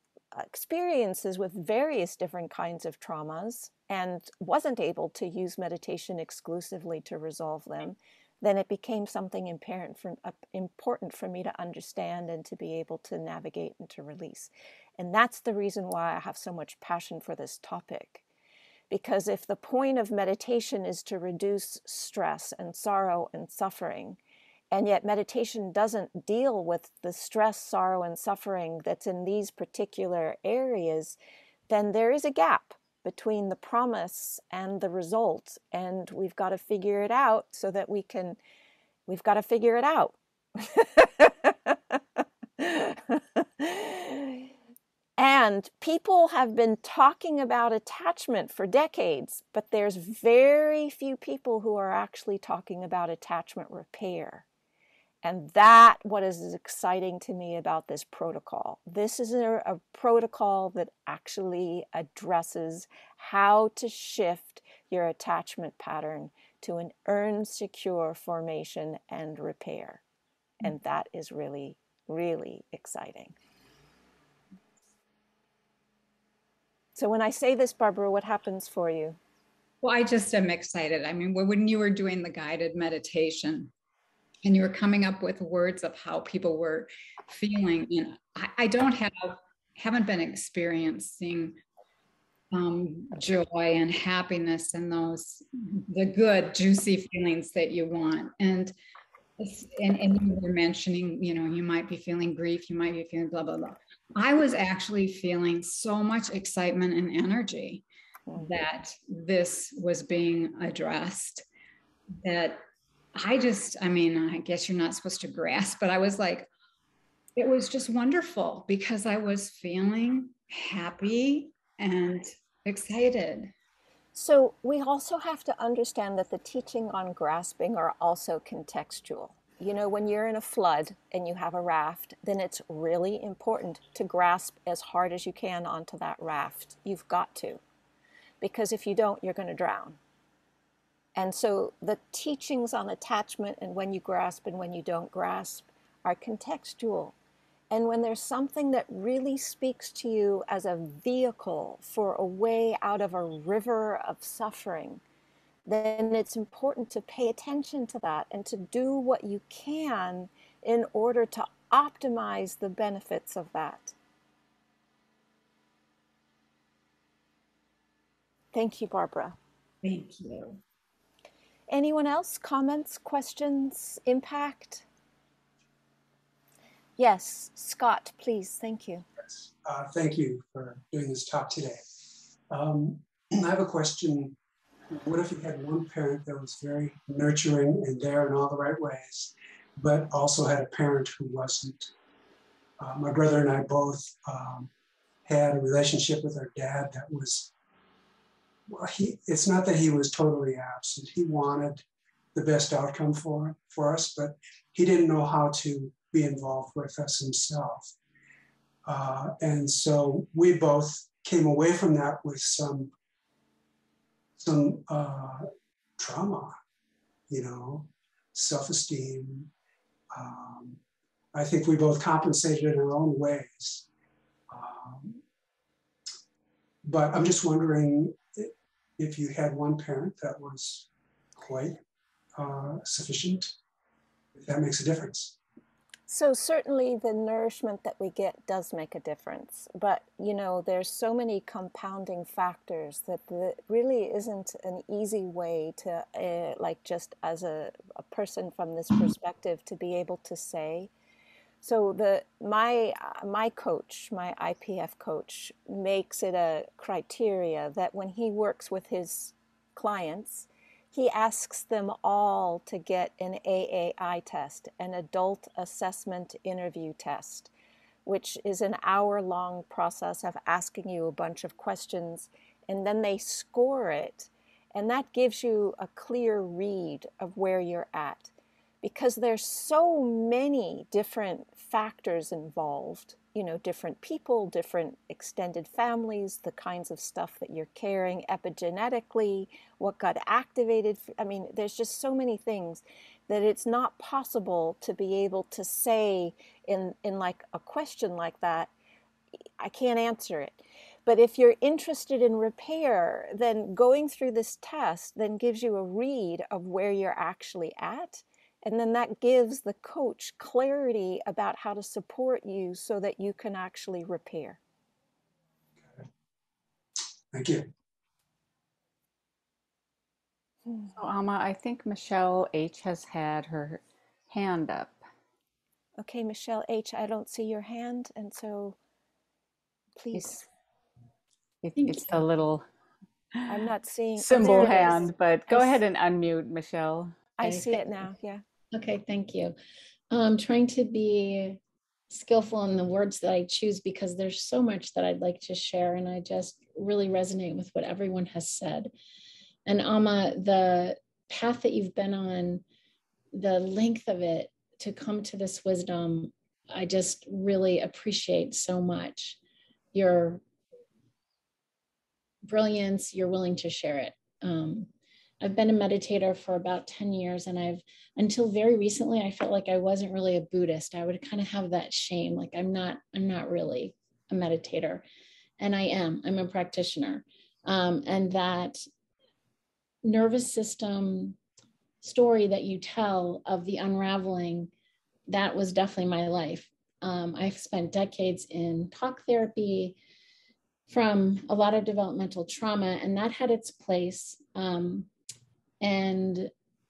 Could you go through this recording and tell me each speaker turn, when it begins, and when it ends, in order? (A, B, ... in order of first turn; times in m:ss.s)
0:00.3-0:18.2 A
0:18.9-0:24.2 A
0:24.7-0:31.2 A
0:31.7-0:38.4 A
0:39.1-0:44.5 A
0:45.2-0:54.5 A
0:55.2-1:10.0 A
1:10.6-1:13.4 A
1:17.0-1:19.2 A
1:19.8-1:23.7 B
1:24.4-1:31.6 B
1:32.5-1:38.7 B
1:39.4-1:51.4 B
1:52.2-1:52.6 B
1:53.2-1:56.5 B
1:57.4-2:03.5 B
2:04.1-2:17.6 A
2:18.4-2:20.0 A
2:21.2-2:27.2 A
2:27.7-2:35.0 A
2:35.6-2:44.0 A
2:48.5-2:49.4 A
2:49.8-2:50.6 B
2:51.7-2:54.9 A
2:57.0-2:59.0 A
2:59.6-3:01.8 C
3:02.5-3:04.4 C
3:04.9-3:11.9 C
3:12.8-3:14.7 C
3:15.2-3:17.5 C
3:18.7-3:27.9 C
3:28.8-3:32.9 C
3:34.4-3:35.5 C
3:36.0-3:36.6 C
3:37.3-3:39.5 C
3:40.1-3:40.8 C
3:41.3-3:43.9 C
3:44.5-3:45.2 C
3:46.8-3:51.8 C
3:52.4-3:53.5 C
3:54.4-3:55.4 C
3:56.1-4:10.9 A
4:11.6-4:27.5 A
4:28.0-4:58.7 A
4:59.6-5:14.6 A
5:17.3-5:17.7 C
5:20.9-5:25.0 D
5:26.0-5:28.8 A
5:30.0-5:30.4 A
5:30.1-5:30.4 D
5:31.6-5:32.6 D
5:31.8-5:32.2 E
5:33.5-5:35.0 A
5:34.2-5:37.2 D
5:37.4-5:38.4 A
5:37.4-5:37.8 E
5:38.7-5:39.5 E
5:40.1-5:48.9 E
5:49.7-5:52.6 E
5:53.3-5:59.4 E
5:59.9-6:00.4 E
6:02.4-6:04.9 E
6:05.4-6:15.0 E
6:15.6-6:18.8 E
6:20.0-6:21.4 E
6:22.0-6:24.7 E
6:25.3-6:30.0 E
6:30.9-6:35.1 E
6:35.8-6:36.5 E